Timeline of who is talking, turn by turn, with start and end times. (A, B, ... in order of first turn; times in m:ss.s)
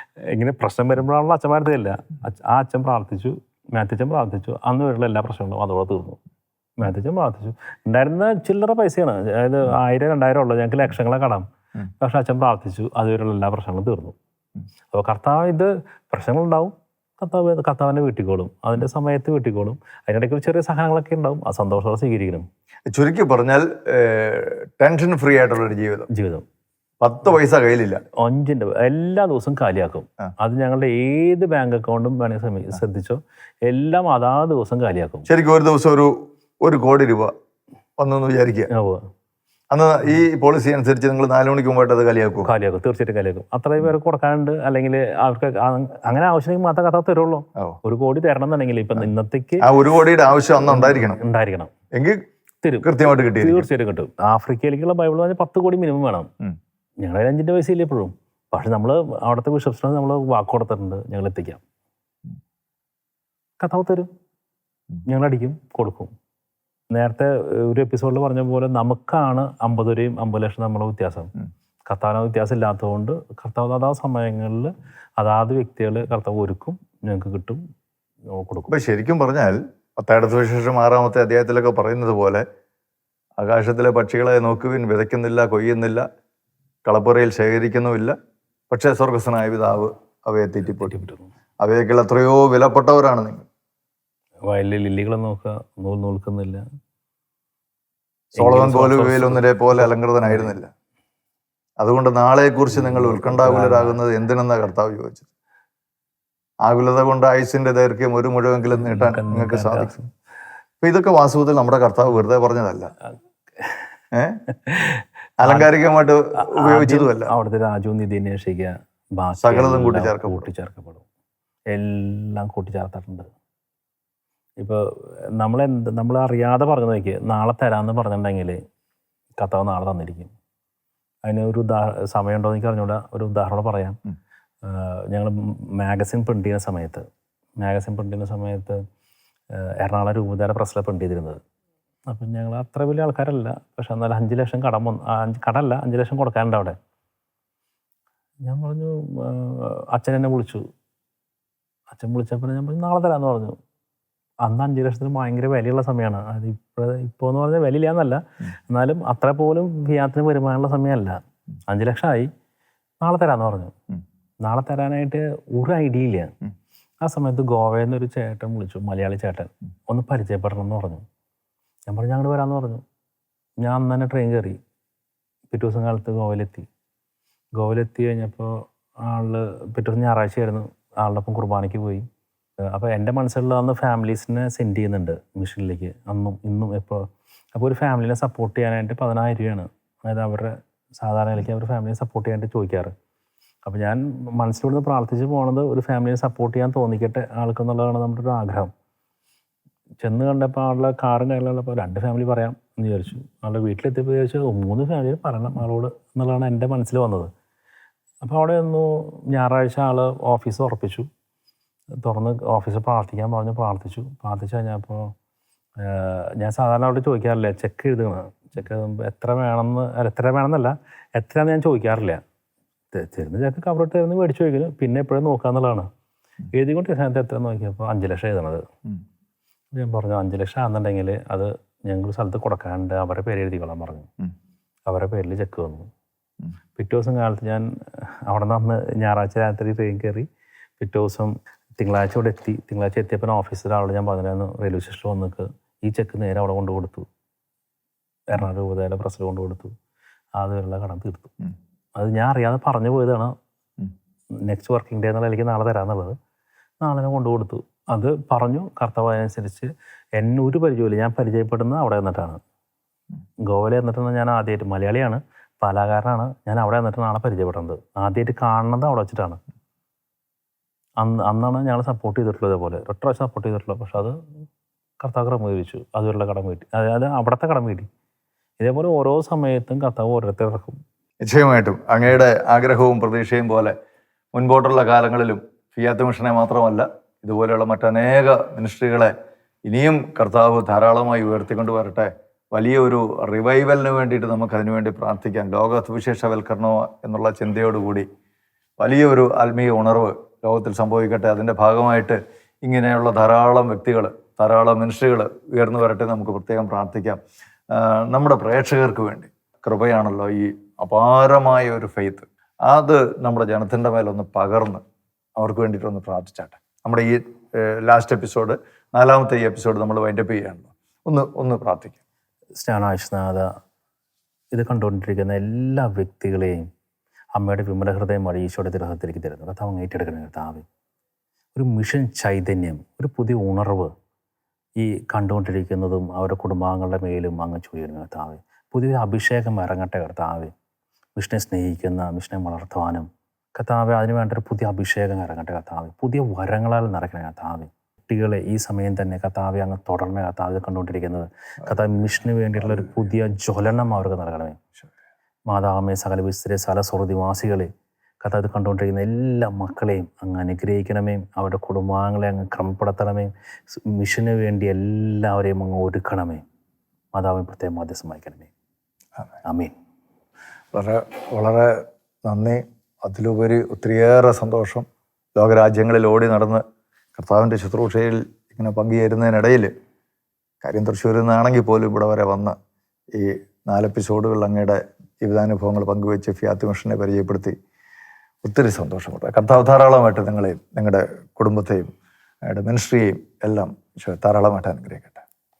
0:00.2-0:06.2 A
0:06.8-0:11.5 A
0:12.0-0:14.2 A
0:14.9-0:22.5 A
0:22.9-0:26.1 B
0:26.1-0:26.4 A
0:27.0-0:28.0 B
0:28.2-0:35.3 A
0:35.3-0:37.3 B
0:38.0-0:38.7 B
0:38.7-0:39.1 A
0:39.7-0:42.5 B
0:42.4-0:49.7 A
0:49.6-0:51.2 B
0:50.6-0:51.7 A
0:51.9-0:52.2 B
0:52.6-0:56.3 A
0:52.8-0:53.7 B
0:57.0-1:01.6 A
1:03.6-1:04.1 A
1:05.0-1:06.1 A
1:06.9-1:11.3 A
1:11.9-1:17.6 A
1:18.3-1:18.7 A
1:18.7-1:22.4 B
1:23.4-1:26.0 B
1:26.8-1:28.2 B
1:28.7-1:31.0 B
1:30.8-1:31.3 A
1:31.6-1:33.4 B
1:34.5-1:36.6 A
1:38.4-1:40.5 A
1:38.4-1:40.7 B
1:41.8-1:45.3 B
1:42.7-1:44.0 A
1:46.6-1:49.9 B
1:48.8-1:50.1 A
1:50.8-1:52.9 B
1:54.1-1:54.4 B
1:54.5-1:55.7 A
1:55.4-1:57.3 B
1:56.4-2:01.0 A
1:59.4-2:00.5 B
2:01.7-2:03.3 A
2:04.6-2:04.8 A
2:05.4-2:08.6 A
2:09.4-2:10.3 A
2:11.2-2:14.0 A
2:14.6-2:17.0 A
2:17.6-2:18.8 A
2:19.5-2:21.4 A
2:22.1-2:26.8 A
2:28.4-2:30.6 A
2:31.9-2:33.6 A
2:34.4-2:42.3 A
2:43.0-2:43.7 A
2:44.4-2:46.3 A
2:47.0-2:51.0 A
2:51.9-2:52.8 A
2:53.6-2:54.6 A
2:55.5-2:56.7 A
2:57.6-3:02.1 A
3:02.7-3:12.9 A
3:13.6-3:18.7 A
3:20.0-3:27.3 A
3:28.2-3:31.1 A
3:32.0-3:35.1 A
3:35.8-3:42.2 A
3:42.9-3:45.9 A
3:46.5-3:48.6 A
3:49.7-3:54.1 A
3:54.9-3:55.9 A
3:56.8-4:00.3 A
4:00.8-4:07.0 A
4:08.3-4:09.7 A
4:10.4-4:11.3 A
4:12.0-4:13.3 A
4:14.5-4:16.2 A
4:16.8-4:22.4 A
4:23.4-4:29.4 A
4:31.0-4:34.2 A
4:35.0-4:37.9 A
4:38.6-4:40.8 A
4:41.2-4:43.7 B
4:44.3-4:49.1 B
4:49.7-4:58.1 B
4:58.8-5:14.8 B
5:15.4-5:22.0 B
5:22.6-5:23.5 A
5:24.5-5:26.7 A
5:27.4-5:30.6 A
5:31.5-5:33.9 A
5:34.8-5:40.5 A
5:41.2-5:54.6 A
5:55.5-5:57.7 A
5:58.2-6:06.4 A
6:07.1-6:08.5 A
6:09.4-6:09.7 A
6:10.7-6:16.6 B
6:17.1-6:19.7 B
6:20.6-6:22.5 B
6:23.1-6:27.6 B
6:28.4-6:31.9 B
6:32.4-6:35.2 B